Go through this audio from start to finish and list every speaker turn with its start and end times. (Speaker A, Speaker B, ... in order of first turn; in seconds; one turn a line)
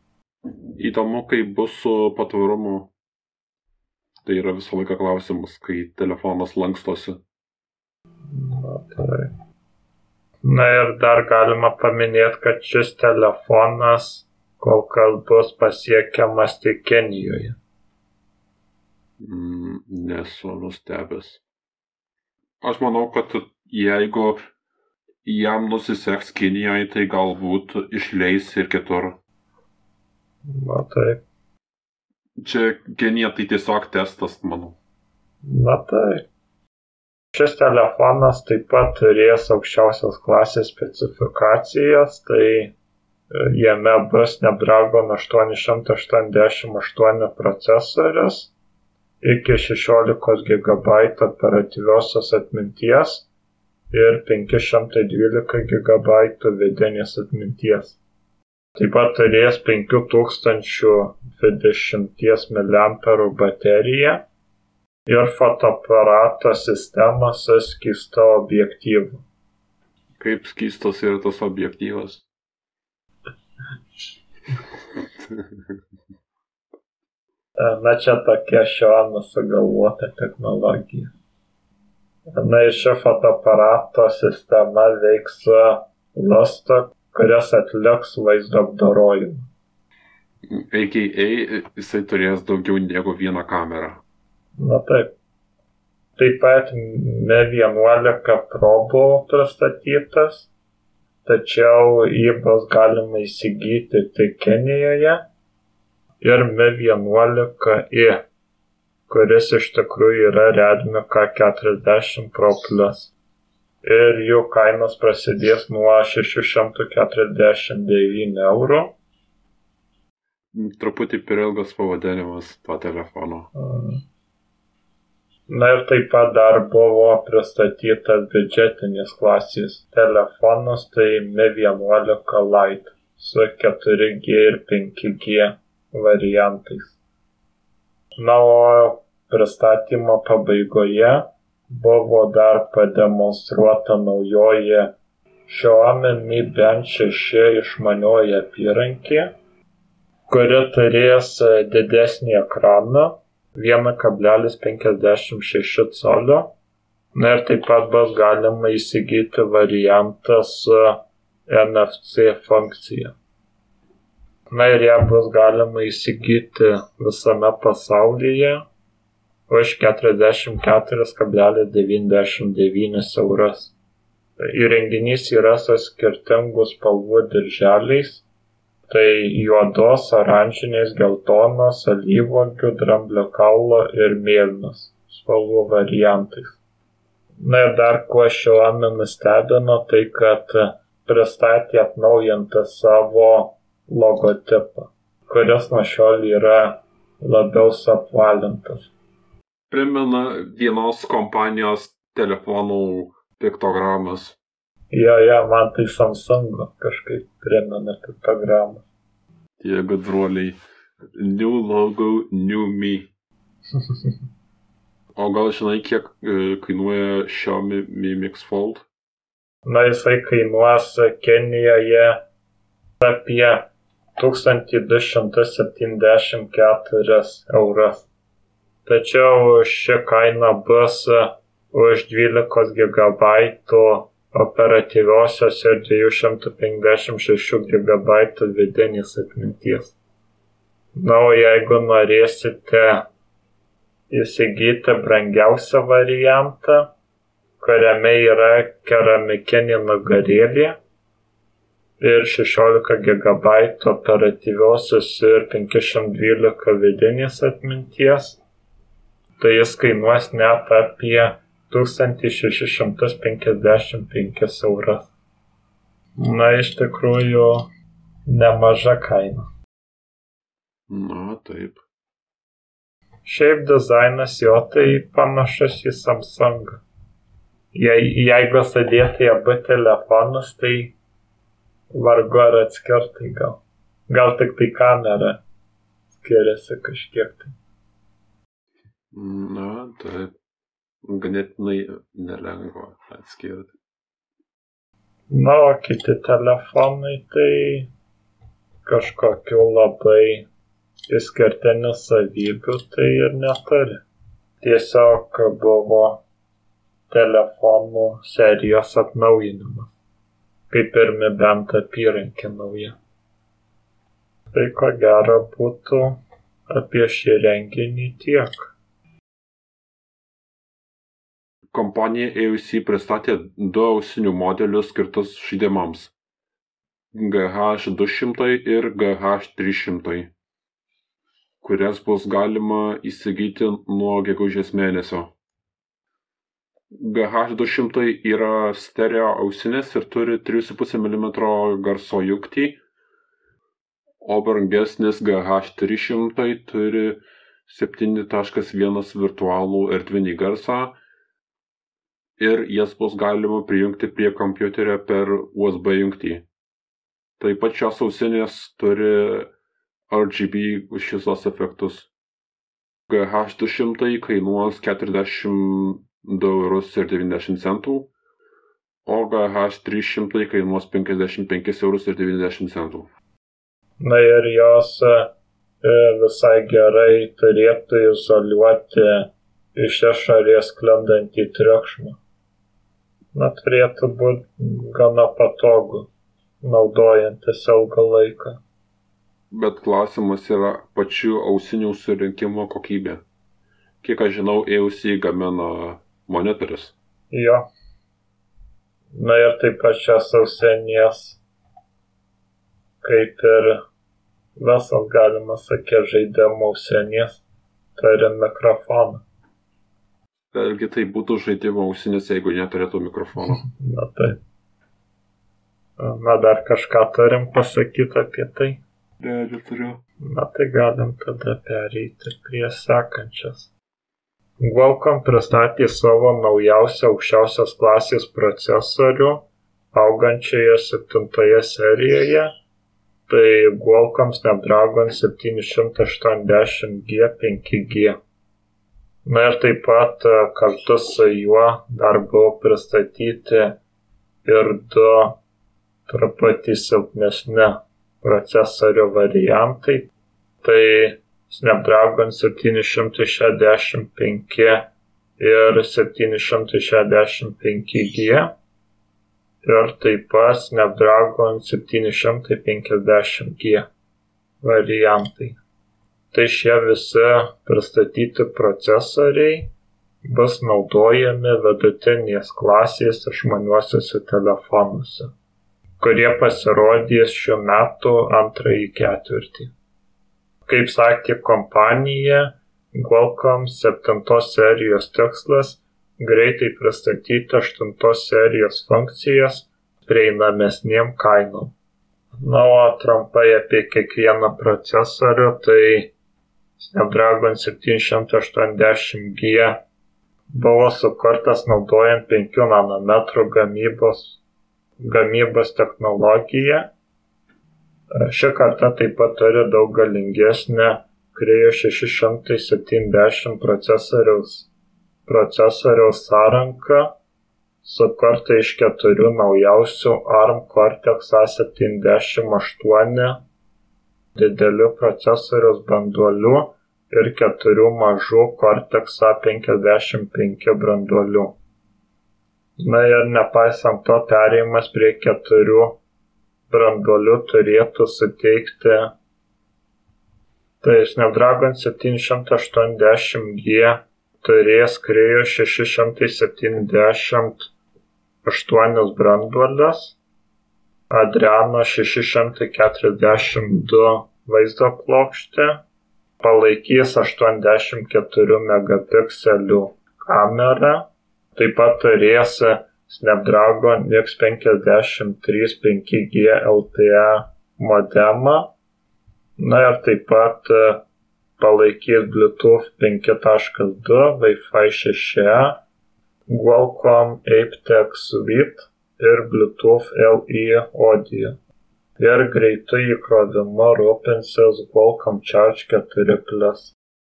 Speaker A: 0.8-2.9
Speaker A: 4.2-7.2
Speaker B: 8.3-9.3
Speaker B: 10.4-17.6
Speaker A: 19.2-21.4
Speaker A: 22.6-24.4
Speaker A: 25.2-29.2
Speaker B: 30.5-31.2
Speaker A: 32.4-34.8
Speaker B: 35.4-36.2
Speaker B: 37.3-42.7
Speaker B: 43.3-48.5
Speaker B: 49.2-53.3
Speaker B: 53.9-58.0
Speaker B: 58.8-64.2
Speaker B: 65.1-69.2
Speaker A: 70.2-72.2
Speaker B: 77.6-81.1
Speaker B: 82.3-89.5
Speaker A: 90.5-94.0
Speaker B: 94.6-95.1
Speaker B: 96.2-100.5
Speaker B: 101.2-105.2
Speaker B: 106.2-108.2
Speaker B: 109.1-113.1
Speaker B: 113.8-119.0
Speaker A: 120.5-123.5
Speaker B: 123.5-124.0
Speaker B: 125.5-137.0
Speaker B: 138.2-144.9
Speaker B: 145.5-149.3
Speaker B: 150.3-156.5
Speaker B: 157.2-163.1
Speaker B: 164.5-168.6
Speaker B: 169.5-173.8
Speaker B: 174.4-178.2
Speaker B: 178.9-186.6
Speaker B: 187.4-198.9
Speaker A: 199.7-204.4
Speaker B: 204.9-208.8
Speaker A: 209.6-210.6
Speaker A: 211.1-213.1
Speaker A: 215.2-218.8
Speaker B: 219.7-222.2
Speaker B: 223.0-228.1
Speaker B: 228.9-240.0
Speaker B: 241.0-243.1
Speaker B: 244.1-246.9
Speaker B: 247.6-250.8
Speaker B: 252.0-258.4
Speaker B: 259.4-265.1
Speaker B: 266.2-267.7
Speaker B: 268.3-269.4
Speaker A: 270.9-271.8
Speaker B: 273.2-276.8
Speaker B: 277.7-281.0
Speaker B: 281.9-285.4
Speaker B: 286.1-287.5
Speaker A: 289.1-290.3
Speaker A: 291.0-293.7
Speaker B: 295.3-297.9
Speaker B: 298.9-300.5
Speaker B: 301.1-304.0
Speaker B: 304.6-306.2
Speaker B: 307.1-309.9
Speaker B: 310.7-313.0
Speaker B: 314.5-318.7
Speaker A: 321.7-326.1
Speaker A: 327.1-330.3
Speaker A: 331.6-335.3
Speaker A: 336.9-342.8
Speaker A: 344.2-351.0
Speaker A: 352.4-356.5
Speaker A: 357.4-359.5
Speaker A: 360.1-362.1
Speaker A: 363.1-368.1
Speaker A: 369.1-373.1
Speaker B: 374.0-382.2
Speaker B: 383.3-386.1
Speaker B: 386.6-388.6
Speaker A: 389.5-393.2
Speaker A: 394.0-396.9
Speaker B: 397.3-397.6
Speaker B: 399.1-401.4
Speaker B: 403.0-403.8
Speaker B: 404.6-407.4
Speaker B: 408.0-409.2
Speaker A: 410.5-413.6
Speaker B: 413.6-414.4
Speaker B: 416.0-418.8
Speaker A: 419.2-420.0
Speaker B: 420.2-423.7
Speaker B: 424.6-432.5
Speaker B: 433.3-438.2
Speaker B: 439.2-443.8
Speaker B: 444.4-445.4
Speaker B: 446.1-450.1
Speaker B: 450.6-454.9
Speaker B: 455.4-458.5
Speaker B: 459.6-463.9
Speaker B: 464.6-465.6
Speaker B: 466.3-469.7
Speaker B: 470.2-475.3
Speaker B: 476.0-479.7
Speaker B: 480.7-491.7
Speaker B: 492.4-496.1
Speaker B: 496.8-499.8
Speaker B: 500.5-504.4
Speaker B: 505.0-506.9
Speaker B: 508.2-514.7
Speaker B: 515.3-517.1
Speaker B: 517.8-523.4
Speaker B: 524.4-531.6
Speaker B: 532.8-536.0
Speaker B: 536.7-539.1
Speaker B: 540.8-547.7
Speaker B: 548.5-550.2
Speaker B: 551.1-555.8
Speaker B: 556.4-568.7
Speaker B: 569.6-571.0
Speaker B: 571.6-575.8
Speaker B: 576.5-581.6
Speaker B: 582.2-587.0